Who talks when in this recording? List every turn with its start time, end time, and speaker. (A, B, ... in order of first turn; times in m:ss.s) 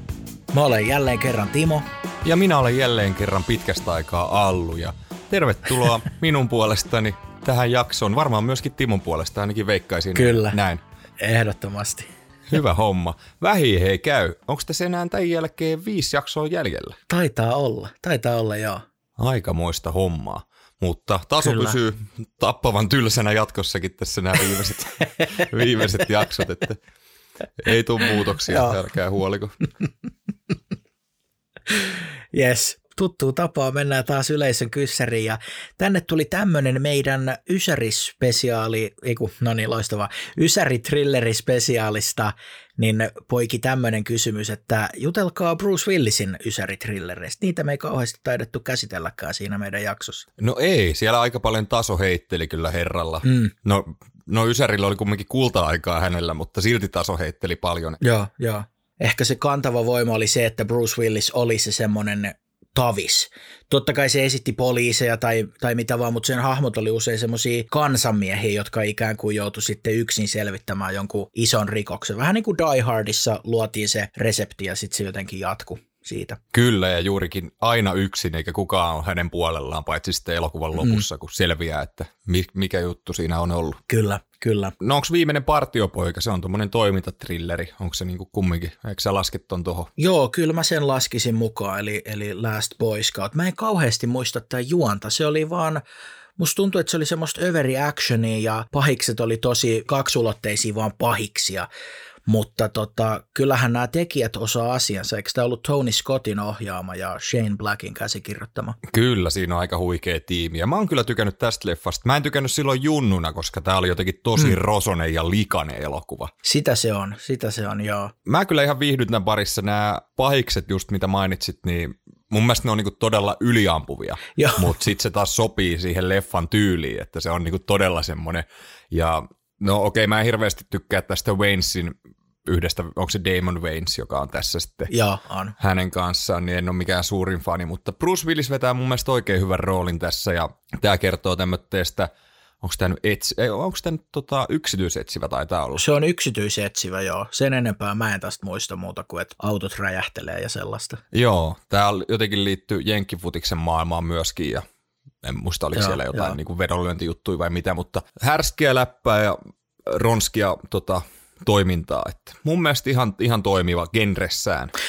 0:00.5-0:01.8 A
0:02.2-0:10.8 B
0:10.1-0:10.6 A
0:11.2-0:12.1 A
0:12.5-0:17.0 B
0:17.1-0:18.8 A
0:19.2-0:26.8 B
0:21.4-0:21.8 A
0:27.6-0:29.6 B
0:28.5-0:28.8 A
0:31.8-0:50.3 A
0:50.4-0:58.0 B
0:53.2-0:53.5 A
0:58.0-1:16.4 A
1:16.5-1:23.8 B
1:20.8-1:21.0 A
1:23.9-1:24.7 A
1:24.8-1:29.9 B
1:30.0-1:35.8 A
1:36.4-1:41.7 A
1:42.3-1:48.8 A
1:48.8-1:56.3 B
1:56.4-1:58.1 A
1:58.2-2:14.9 B
2:04.4-2:04.7 A
2:14.9-2:15.5 A
2:15.6-2:22.1 B
2:22.6-2:25.8 B
2:25.8-2:31.0 A
2:31.1-2:34.6 B
2:35.2-2:44.7 B
2:35.7-2:36.3 A